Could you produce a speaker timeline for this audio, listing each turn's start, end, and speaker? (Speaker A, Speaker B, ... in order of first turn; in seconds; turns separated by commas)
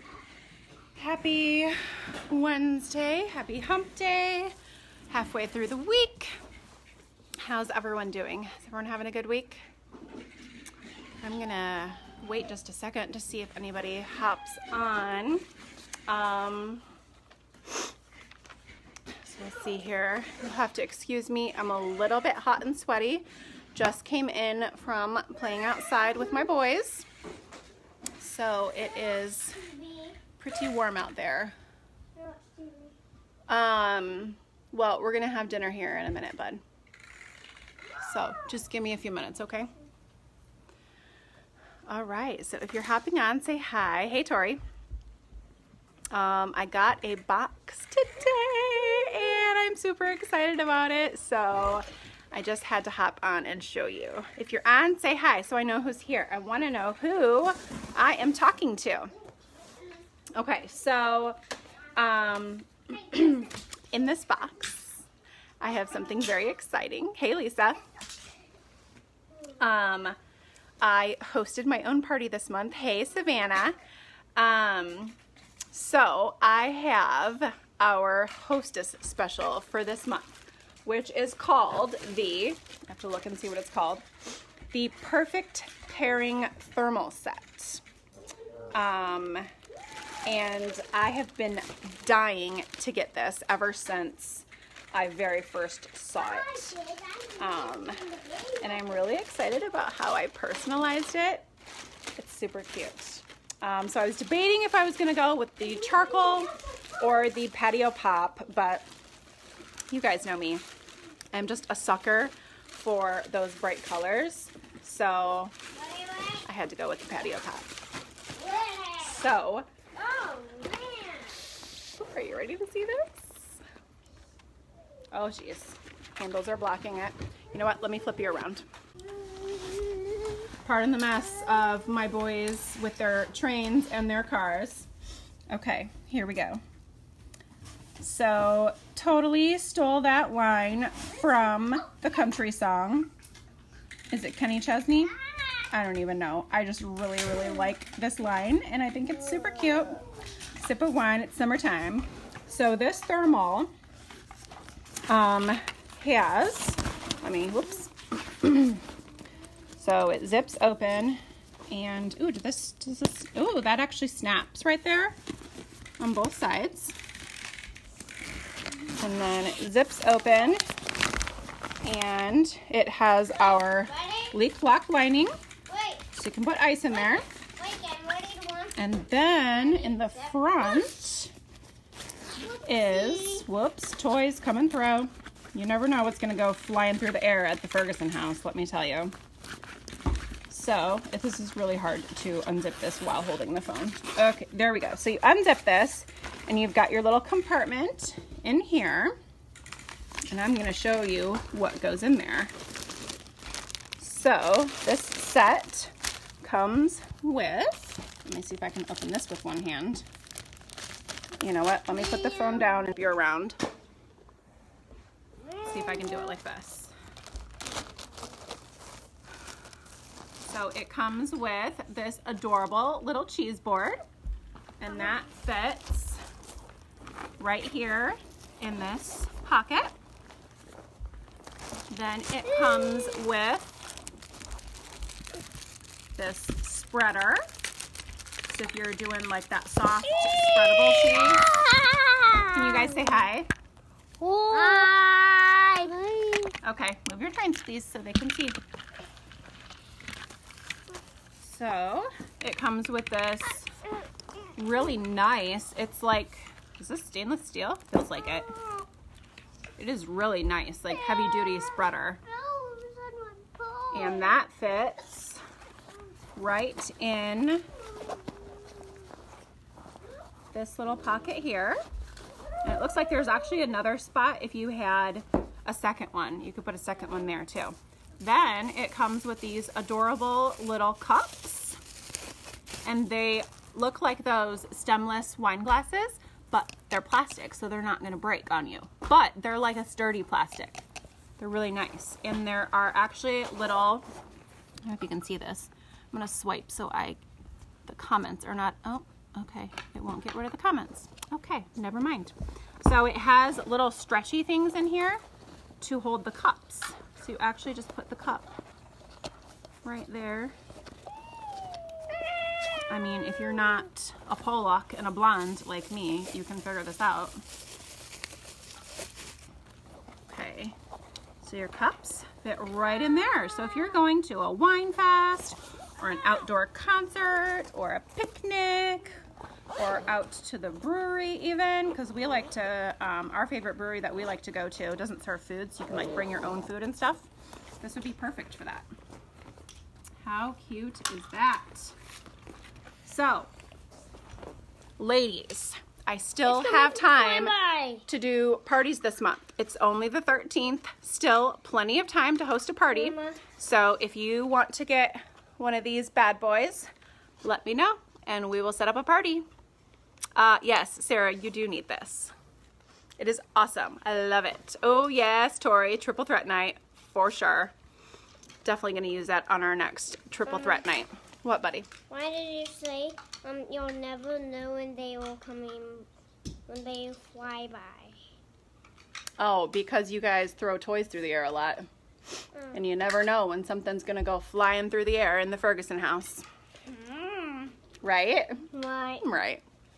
Speaker A: 1.0-4.5, Speaker A: 5.1-6.3, Speaker A: 7.4-9.6, Speaker A: 11.2-15.5, Speaker A: 16.1-16.8, Speaker A: 19.2-27.1, Speaker A: 28.2-29.7, Speaker A: 30.4-31.6, Speaker B: 32.2-32.9, Speaker A: 33.5-36.6, Speaker A: 38.0-39.7, Speaker A: 41.9-44.6, Speaker A: 46.1-59.1, Speaker A: 60.4-61.4, Speaker A: 62.0-65.1, Speaker A: 65.6-67.8, Speaker A: 69.6-70.2, Speaker A: 70.8-73.8, Speaker A: 74.4-75.2, Speaker A: 75.7-80.3, Speaker A: 80.8-84.1, Speaker A: 84.7-87.8, Speaker A: 88.7-89.5, Speaker A: 90.3-101.5, Speaker B: 96.8-97.3, Speaker A: 102.2-108.9, Speaker A: 109.9-110.7, Speaker A: 111.3-115.5, Speaker B: 115.8-116.4, Speaker A: 116.4-117.7, Speaker B: 118.3-119.3, Speaker A: 119.0-119.7, Speaker B: 120.0-121.4, Speaker A: 122.0-123.6, Speaker A: 125.1-128.7, Speaker B: 129.3-130.2, Speaker A: 130.6-134.9, Speaker A: 135.5-136.6, Speaker A: 138.0-143.1, Speaker A: 144.1-145.2, Speaker A: 145.7-153.7, Speaker A: 155.1-158.8, Speaker A: 159.8-165.2, Speaker A: 166.0-167.0, Speaker A: 169.0-170.6, Speaker A: 171.8-175.3, Speaker B: 173.5-174.3, Speaker B: 175.7-176.1, Speaker A: 176.1-177.3, Speaker B: 177.2-178.8, Speaker A: 178.8-181.3, Speaker B: 179.7-180.1, Speaker B: 182.4-183.4, Speaker A: 182.6-189.1, Speaker A: 190.5-199.2, Speaker A: 200.3-202.5, Speaker A: 204.0-210.1, Speaker A: 211.4-213.6, Speaker A: 215.6-216.9, Speaker A: 220.4-224.0, Speaker A: 224.8-226.2, Speaker A: 227.4-229.9, Speaker A: 231.9-233.8, Speaker A: 236.2-237.4, Speaker A: 238.5-241.5, Speaker B: 240.9-243.2, Speaker A: 242.5-243.5, Speaker B: 244.2-246.6, Speaker A: 246.6-248.6, Speaker A: 251.4-253.7, Speaker A: 254.6-258.5, Speaker A: 259.8-262.2, Speaker B: 261.1-261.6, Speaker B: 262.2-264.4, Speaker A: 263.9-265.4, Speaker A: 266.4-267.7, Speaker A: 270.5-271.8, Speaker A: 272.6-281.8, Speaker A: 282.9-290.8, Speaker A: 291.4-294.1, Speaker A: 294.9-297.2, Speaker A: 297.9-305.2, Speaker A: 305.8-308.5, Speaker A: 309.8-310.6, Speaker A: 312.9-317.4, Speaker A: 320.3-320.8, Speaker A: 321.4-329.2, Speaker A: 329.8-337.3, Speaker A: 337.8-338.9, Speaker A: 340.2-342.0, Speaker A: 343.0-343.5, Speaker A: 345.0-347.5, Speaker B: 346.5-348.0, Speaker A: 348.1-356.9, Speaker B: 352.9-353.4, Speaker A: 357.4-359.4, Speaker A: 360.4-362.3, Speaker A: 363.2-367.7, Speaker A: 368.6-371.9, Speaker B: 372.1-376.1, Speaker B: 376.7-378.2, Speaker A: 379.4-381.9, Speaker A: 382.7-386.4, Speaker B: 386.9-387.7, Speaker A: 388.0-388.7, Speaker B: 388.7-389.2, Speaker A: 389.2-389.6